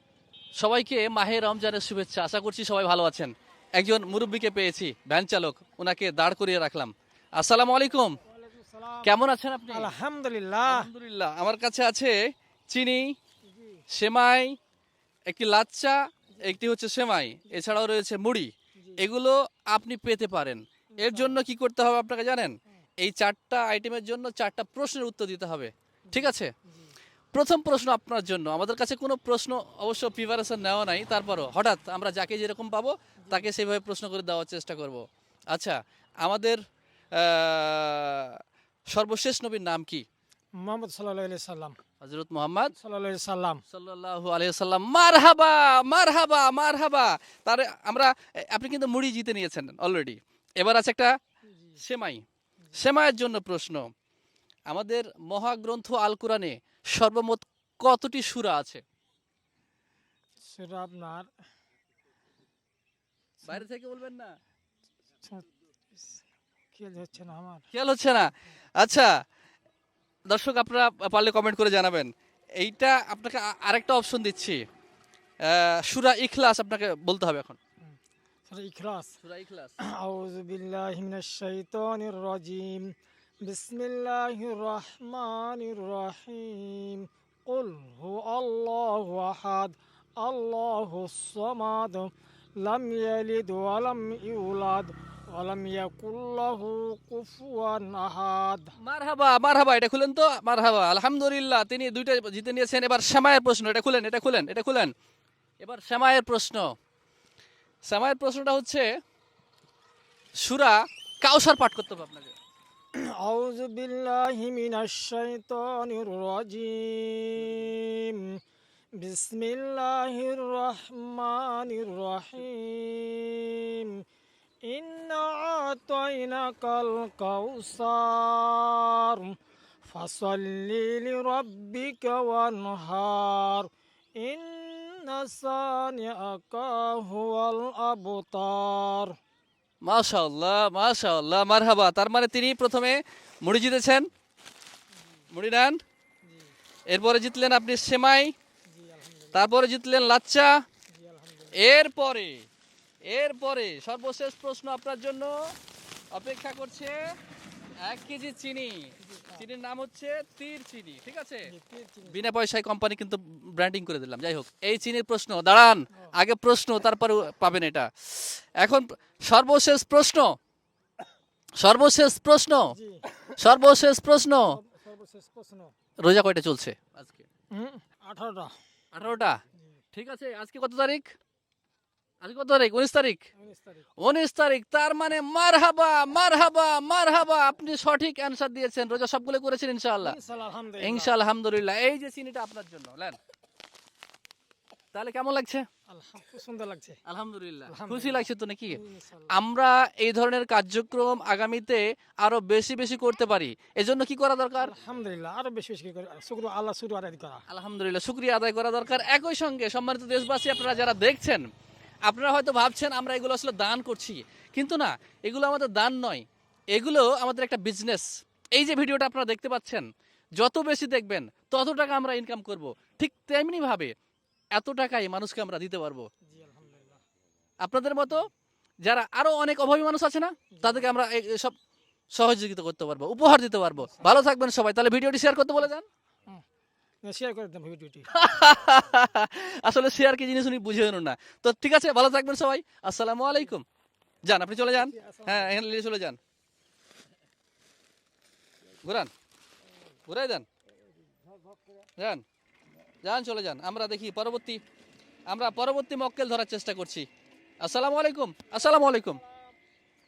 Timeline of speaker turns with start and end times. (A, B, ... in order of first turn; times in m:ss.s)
0:00.6-0:08.2 A
0:08.2-0:09.1 B
0:09.0-0:09.9 A
0:09.7-0:10.9 B
0:10.6-0:12.1 A
0:12.7-0:13.1 A
0:13.5-0:13.8 B
0:13.9-0:14.6 A
0:15.3-0:26.5 A
0:16.3-0:16.6 B
0:17.5-0:17.8 B
0:18.8-0:19.0 B
0:21.0-0:21.4 B
0:26.1-0:27.0 B
0:27.3-0:36.6 A
0:33.2-0:33.5 B
0:37.1-0:38.4 A
0:38.9-0:40.0 A
0:40.6-0:41.8 B
0:42.0-0:42.7 A
0:42.8-0:43.6 B
0:43.7-0:51.1 A
0:51.5-0:51.8 B
0:51.8-0:52.2 A
0:52.8-0:53.9 A
0:54.7-0:58.8 A
1:00.5-1:01.3 B
1:03.5-1:04.3 A
1:05.2-1:07.7 B
1:07.7-1:08.3 A
1:08.8-1:09.1 A
1:10.3-1:14.6 A
1:15.4-1:17.6 A
1:17.8-1:19.2 B
1:19.2-1:19.7 A
1:20.0-1:22.9 B
1:23.4-1:32.1 B
1:32.6-1:38.7 B
1:38.8-1:44.9 A
1:45.6-1:46.7 A
1:47.9-1:48.8 A
1:50.4-1:52.3 A
1:53.2-1:58.4 B
1:59.0-2:04.0 B
2:04.6-2:19.1 B
2:19.8-2:24.1 A
2:25.3-2:25.8 A
2:26.2-2:26.5 B
2:26.9-2:28.3 A
2:28.7-2:29.4 B
2:29.3-2:30.5 A
2:30.9-2:31.7 B
2:31.6-2:32.4 A
2:33.1-2:35.4 A
2:36.1-2:37.0 A
2:37.8-2:41.5 A
2:39.0-2:39.5 B
2:41.5-2:42.2 B
2:42.0-2:50.3 A
2:51.6-2:52.7 A
2:52.7-2:53.0 B
2:53.4-2:54.6 A
2:54.5-2:55.7 B
2:56.0-2:57.2 A
2:57.5-2:58.5 B
2:58.9-2:59.4 A
2:59.9-3:01.1 A
3:02.2-3:03.2 A
3:03.4-3:03.9 B
3:04.0-3:10.2 A
3:10.0-3:11.1 B
3:10.8-3:13.2 A
3:14.9-3:15.6 A
3:15.9-3:17.0 B
3:17.1-3:18.8 A
3:17.7-3:19.3 B
3:19.3-3:24.7 A
3:24.6-3:27.4 B
3:27.5-3:31.4 A
3:32.1-3:39.9 A
3:40.4-3:43.9 A
3:44.6-3:46.0 A
3:46.3-3:47.0 B
3:47.6-3:48.3 A
3:48.8-3:51.5 A
3:50.5-3:51.0 B
3:52.2-3:55.8 A
3:53.8-3:54.2 B
3:57.0-3:58.1 B
3:58.1-4:03.6 A
4:04.3-4:06.2 A
4:04.6-4:05.6 B
4:08.8-4:09.1 A
4:10.1-4:10.4 A
4:11.0-4:11.8 B
4:12.0-4:12.2 A
4:13.0-4:14.6 A
4:15.3-4:17.1 A
4:17.6-4:19.2 A